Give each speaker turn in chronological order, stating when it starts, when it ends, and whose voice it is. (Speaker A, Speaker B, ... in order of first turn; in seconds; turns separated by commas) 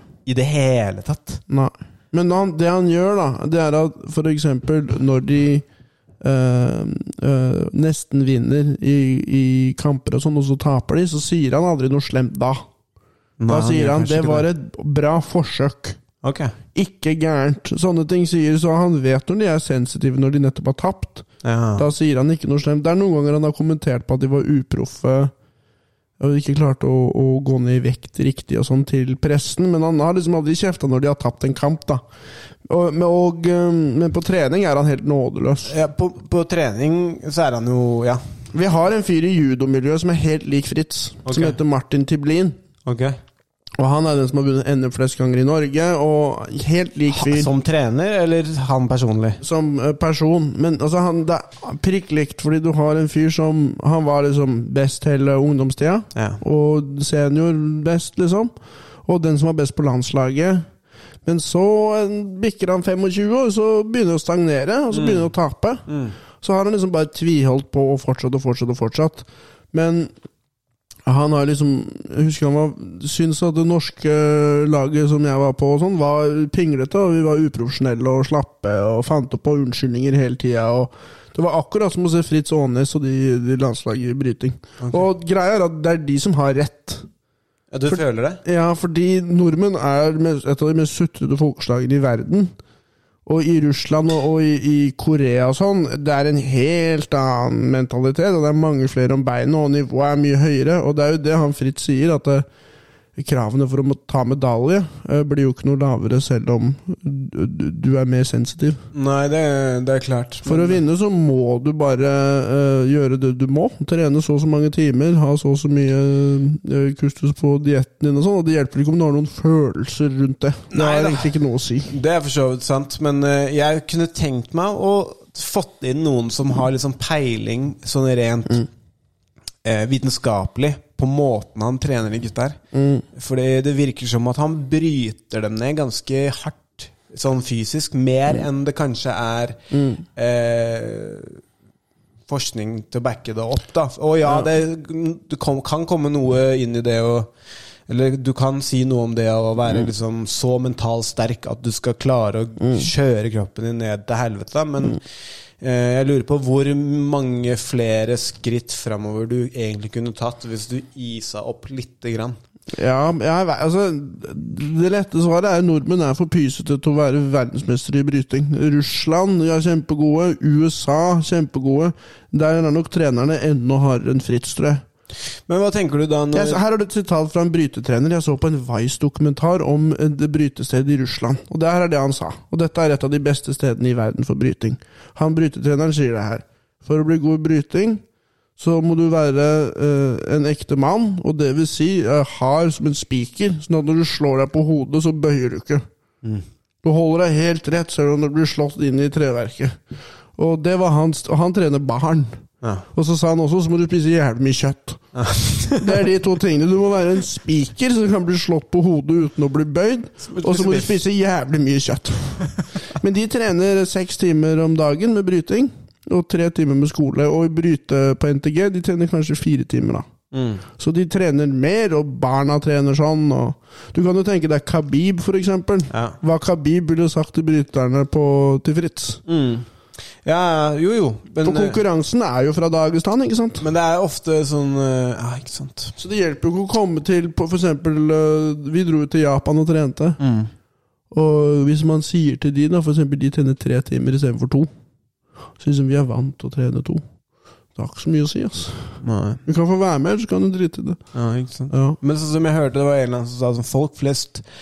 Speaker A: 0.3-1.4, Speaker B: 1.5-5.7, Speaker B: 6.2-12.6, Speaker A: 13.4-14.5, Speaker B: 13.5-16.0, Speaker A: 16.2-16.5, Speaker B: 16.7-25.3, Speaker A: 21.4-21.9, Speaker B: 26.2-32.0, Speaker B: 32.7-35.7, Speaker A: 35.7-38.2, Speaker B: 38.5-42.6, Speaker A: 41.2-41.6, Speaker A: 42.9-43.2, Speaker B: 43.8-47.5, Speaker A: 47.1-49.4, Speaker B: 49.4-58.5, Speaker A: 56.1-56.4, Speaker B: 59.0-60.7, Speaker B: 61.2-70.1, Speaker A: 64.9-65.3, Speaker A: 65.9-66.2, Speaker B: 71.1-87.1, Speaker A: 87.7-88.4, Speaker B: 87.9-92.5, Speaker B: 93.3-102.5, Speaker B: 103.2-108.8, Speaker A: 108.9-110.8, Speaker B: 110.5-121.9, Speaker A: 120.7-121.3, Speaker A: 121.9-128.7, Speaker A: 129.6-132.6, Speaker B: 132.7-133.1, Speaker A: 133.1-139.6, Speaker B: 139.7-140.0, Speaker A: 140.2-141.4, Speaker A: 142.3-147.3, Speaker A: 147.9-155.0, Speaker B: 152.6-152.9, Speaker A: 155.6-162.4, Speaker B: 162.7-174.8, Speaker A: 175.5-176.6, Speaker B: 176.3-188.0, Speaker B: 188.6-195.8, Speaker B: 196.8-199.8, Speaker B: 200.4-202.4, Speaker B: 202.9-205.0, Speaker A: 205.2-205.9, Speaker B: 205.8-220.1, Speaker A: 210.2-211.0, Speaker A: 220.3-220.6, Speaker B: 220.7-229.2, Speaker A: 225.9-226.2, Speaker A: 229.3-229.7, Speaker A: 230.2-231.8, Speaker B: 231.4-233.7, Speaker A: 233.6-235.9, Speaker B: 236.0-240.2, Speaker A: 240.2-240.5, Speaker B: 241.1-244.7, Speaker B: 245.6-247.0, Speaker B: 247.8-251.0, Speaker A: 249.0-249.4, Speaker A: 251.1-254.4, Speaker B: 251.7-252.0